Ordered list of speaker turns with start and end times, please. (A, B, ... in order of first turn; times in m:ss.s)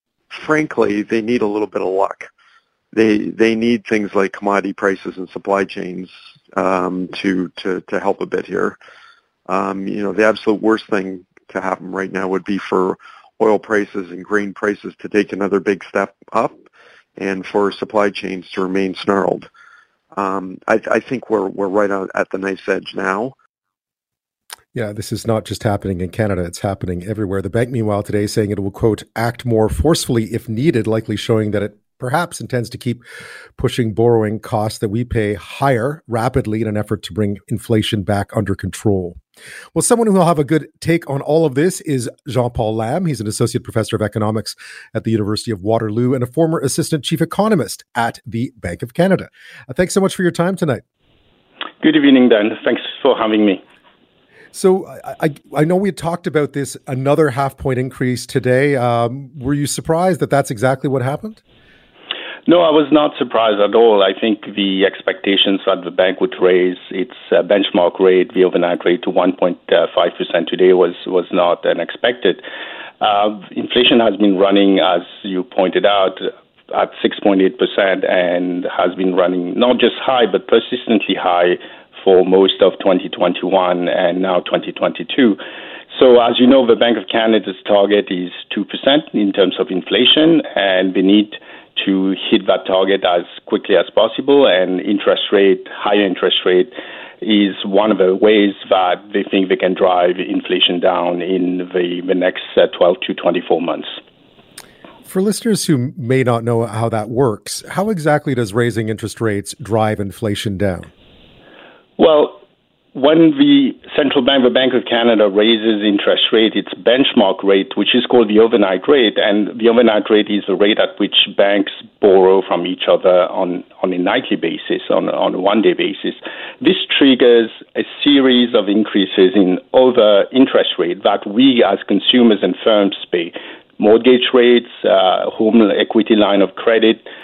0:00.3-0:02.3 A
0:02.9-0:08.8 A
0:09.5-0:16.6 A
0:17.2-0:19.5 A
0:20.1-0:23.3 A
0:24.7-0:33.0 B
0:33.6-0:39.2 B
0:39.7-0:50.8 B
0:51.8-0:53.6 C
0:54.5-1:01.4 B
1:02.5-1:12.4 C
1:13.0-1:25.4 C
1:25.9-1:44.0 C
1:45.0-1:50.9 B
1:52.0-1:52.4 C
1:52.9-2:17.0 C